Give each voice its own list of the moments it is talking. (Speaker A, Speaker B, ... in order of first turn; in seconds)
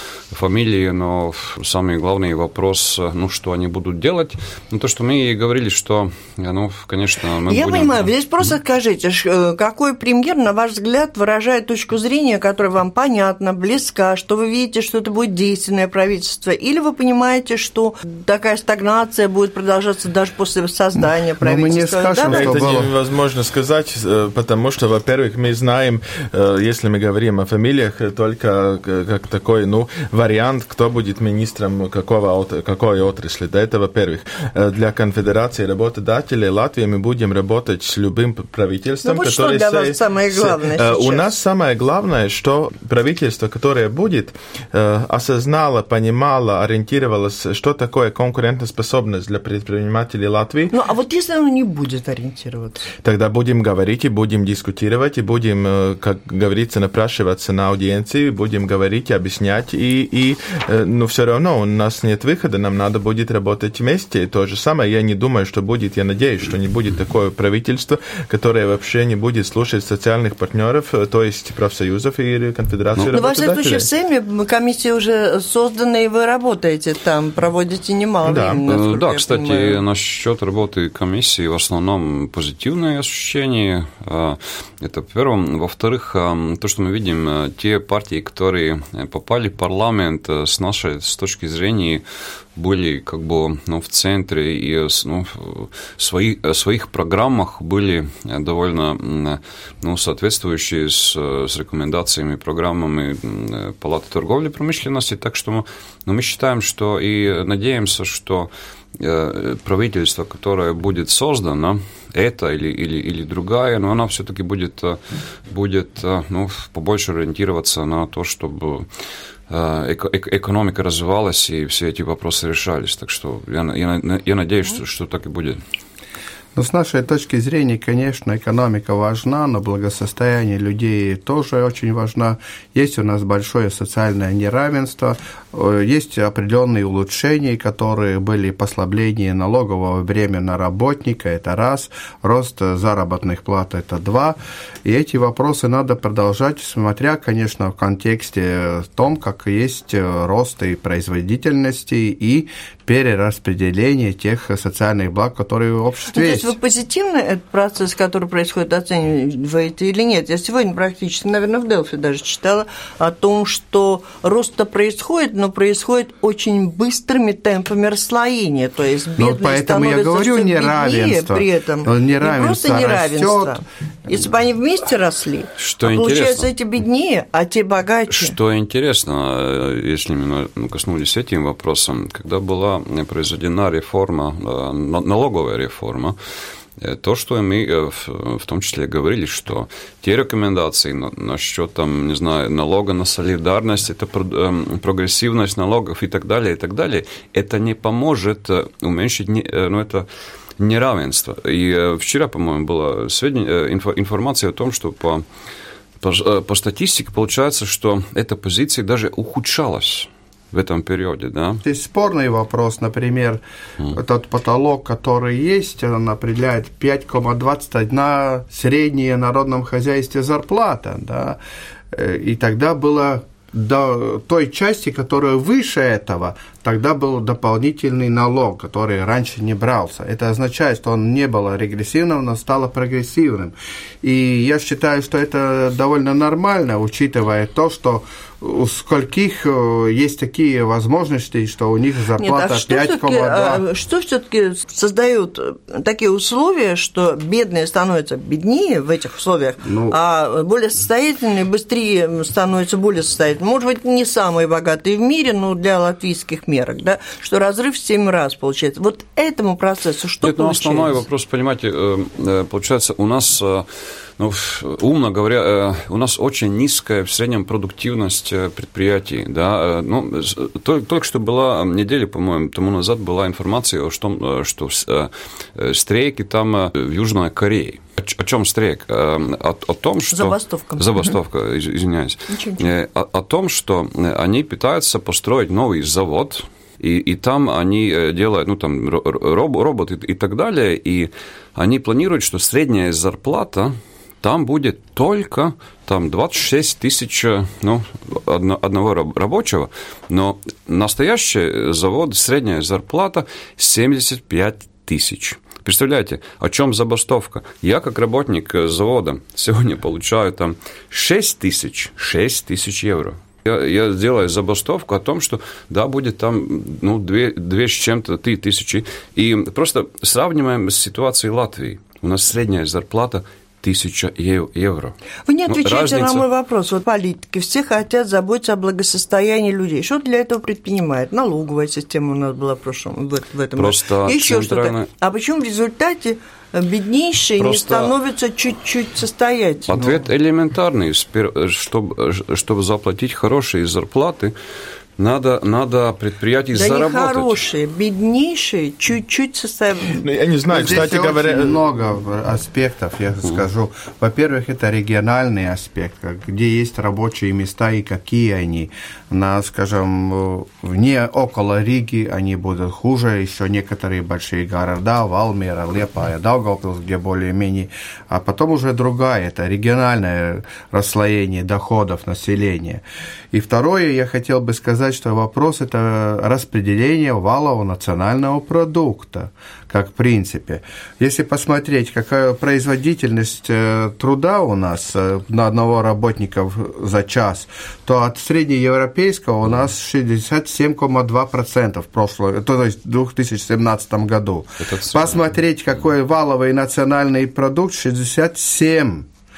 Speaker A: 0.3-8.1, 78.7-92.0, 92.5-118.9, 119.5-125.6, 175.6-176.5, 178.1-186.2, 186.8-200.1, 200.6-205.2, 206.0-211.6, 260.2-263.7, 264.2-324.9, 325.5-326.2, 333.6-334.9, 337.4-337.9, 339.7-344.3, 345.0-347.4, 394.6-395.3
Speaker B: 7.5-22.6, 39.0-41.3, 50.7-52.9, 73.1-79.8, 156.1-178.3, 242.2-261.0, 280.1-280.9, 282.3-282.7, 325.3-340.0, 346.5-350.0
Speaker C: 21.4-22.9, 126.5-156.5, 169.2-173.6, 211.6-221.4, 221.9-243.6, 249.6-250.0, 350.5-399.1
Speaker D: 22.3-50.7, 53.0-73.9, 78.2-78.6, 350.0-351.6